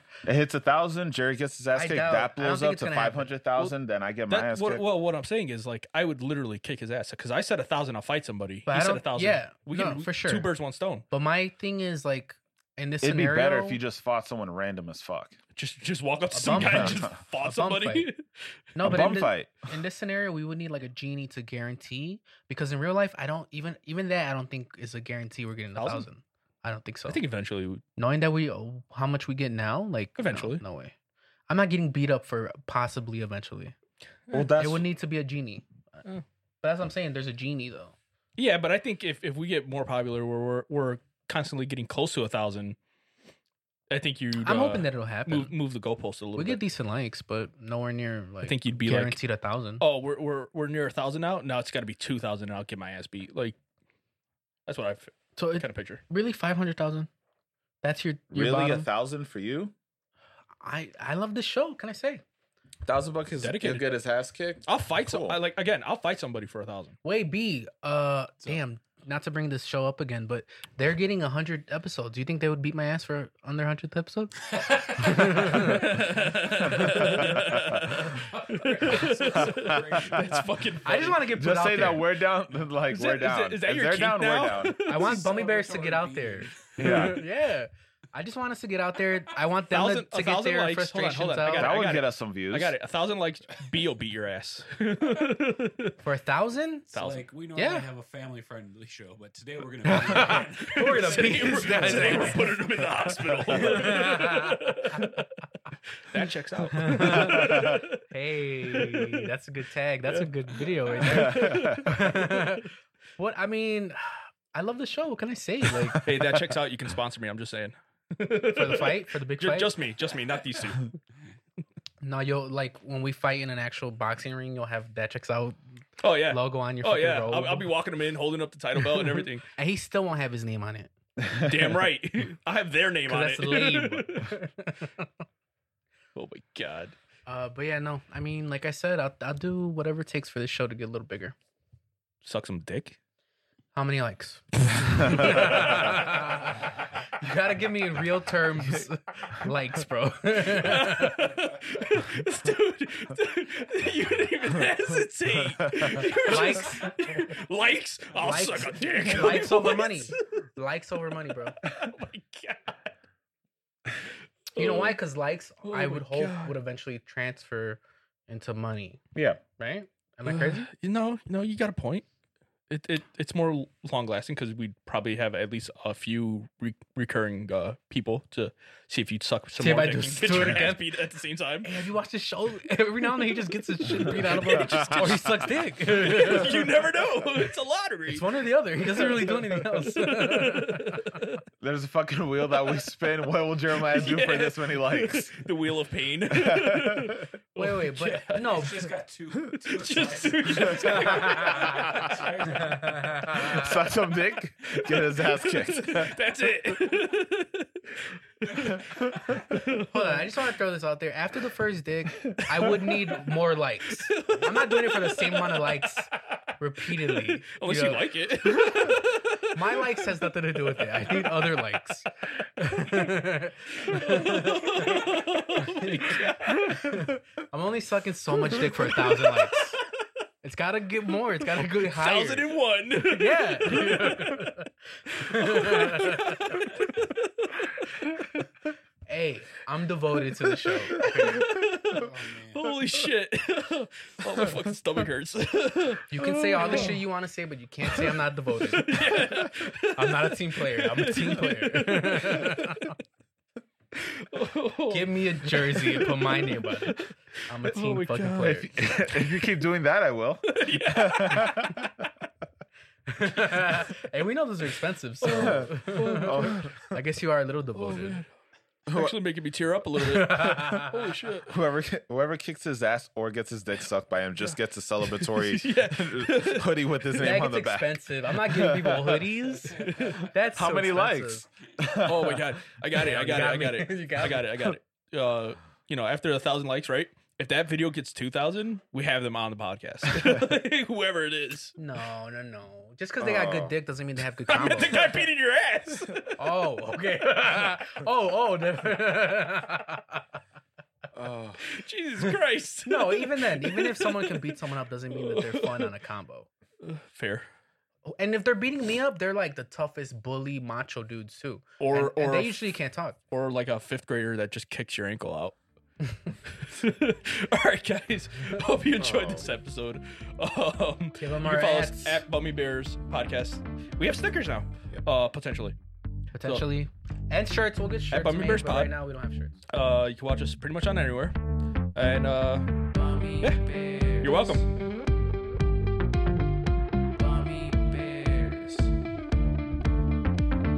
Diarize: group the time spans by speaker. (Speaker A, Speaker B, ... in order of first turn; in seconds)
Speaker A: 0.2-4.8, 13.0-15.4, 16.5-17.1, 18.8-19.5, 34.3-34.8, 58.3-59.7, 62.9-65.4, 76.7-77.8, 79.3-80.4, 81.3-84.8, 86.8-87.2, 91.6-92.7, 99.9-100.3, 101.8-102.2, 107.1-107.8, 111.0-111.9, 145.0-145.3, 155.4-156.1, 159.0-159.4, 169.1-169.4, 184.4-185.4, 191.6-195.4, 196.3-197.3, 200.5-201.1, 201.8-202.2, 203.3-206.2, 258.4-262.1, 265.2-266.9, 268.9-269.1, 271.5-279.3, 280.5-282.5, 293.2-293.8, 301.1-301.6, 319.0-319.5
Speaker B: 1.7-3.3, 8.7-10.5, 11.1-13.8, 16.3-18.1, 18.8-27.2, 28.0-30.9, 31.5-33.7, 34.5-36.0, 36.6-37.9, 44.4-45.5, 46.4-49.8, 55.4-57.1, 57.8-58.9, 60.6-62.2, 67.0-76.0, 80.8-82.1, 84.8-91.7, 96.0-96.9, 97.5-97.9, 100.1-102.5, 103.5-105.2, 106.7-116.3, 118.5-119.7, 122.0-125.6, 126.3-127.7, 128.8-130.9, 133.1-135.1, 137.3-141.3, 143.7-151.3, 156.2-157.2, 158.2-161.6, 164.6-169.0, 169.6-170.7, 179.6-180.9, 181.6-186.8, 188.1-191.2, 197.6-198.9, 201.1-201.9, 202.6-203.7, 209.8-219.0, 219.5-229.8, 230.4-232.4, 233.0-236.6, 239.1-241.6, 246.1-249.1, 249.9-252.9, 254.9-258.7, 263.1-268.2, 270.0-270.9, 277.2-281.4, 282.9-284.8, 291.8-295.2, 296.4-300.2, 302.9-306.5, 308.0-313.2, 321.2-322.2, 326.3-329.6, 332.9-334.6, 337.2-338.9
Speaker C: 4.3-11.0, 15.6-18.2, 25.8-26.1, 27.1-27.8, 30.2-30.6, 38.4-42.8, 43.9-46.6, 48.4-49.2, 49.8-53.5, 54.7-56.0, 63.3-63.9, 64.7-67.0, 75.3-81.2, 82.9-85.3, 89.7-96.0, 96.9-97.3, 100.2-105.2, 106.0-108.0, 108.6-109.2, 110.1-112.6, 116.0-120.9, 126.0-129.4, 131.3-134.3, 136.1-136.9, 142.2-143.0, 145.1-146.1, 150.5-160.4, 161.6-162.8, 164.5-165.0, 165.6-166.5, 170.2-172.1, 172.7-181.7, 183.9-188.2, 188.8-191.4, 193.9-198.9, 199.7-202.2, 204.8-210.2, 212.2-213.3, 213.9-215.9, 216.9-220.1, 220.7-221.6, 222.8-223.1, 223.7-226.9, 228.5-229.8, 231.6-234.5, 235.2-238.4, 240.3-247.0, 248.7-252.9, 253.9-259.5, 260.5-261.7, 265.2-266.6, 267.8-268.3, 268.9-271.5, 275.1-276.8, 279.7-280.2, 282.0-291.8, 294.5-296.4, 301.6-304.6, 305.1-305.9, 306.8-307.4, 311.8-312.6, 313.3-315.6, 316.6-325.8, 326.4-326.7, 328.1-328.9, 329.7-331.4, 331.9-332.7, 334.2-334.6
Speaker D: 74.5-80.5, 85.0-86.9, 96.9-102.4, 198.0-203.6, 208.5-209.4, 241.9-242.8, 279.6-280.3